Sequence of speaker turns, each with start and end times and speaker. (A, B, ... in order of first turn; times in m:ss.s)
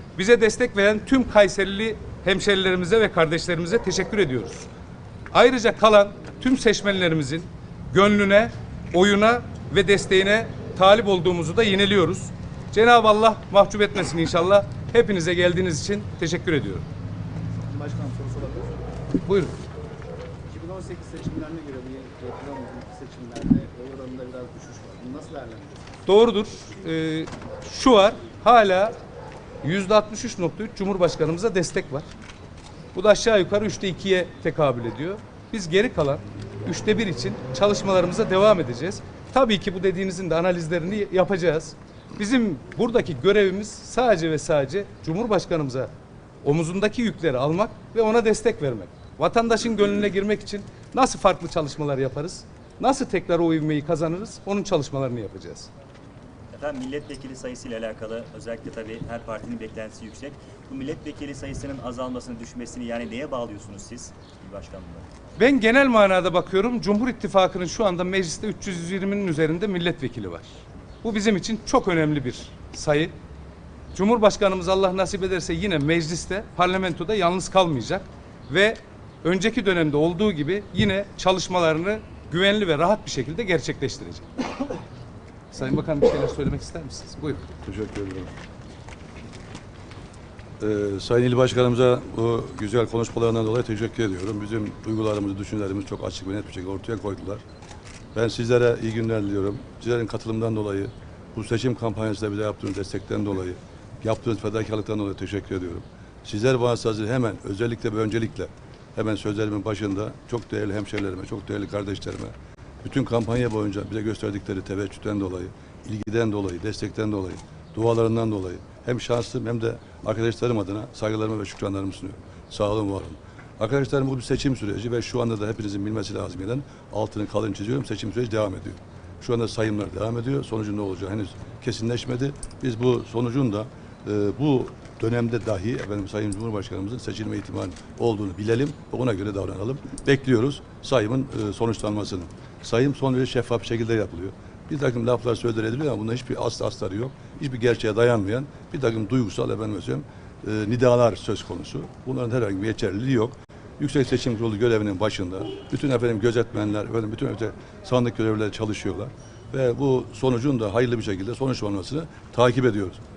0:00.2-0:04.7 A
0:05.3-0:16.8 A
0:17.7-0:18.7 B
0:19.2-0:19.6 A
0:20.5-0:25.6 B
0:26.1-0:28.9 A
0:29.6-0:32.1 A
0:32.9-0:45.9 A
0:46.4-0:55.7 A
0:56.5-1:05.1 C
1:05.4-1:13.1 A
1:13.9-1:24.3 A
1:25.5-1:27.5 A
1:27.6-1:28.3 D
1:30.6-1:37.4 D
1:38.1-2:43.0 D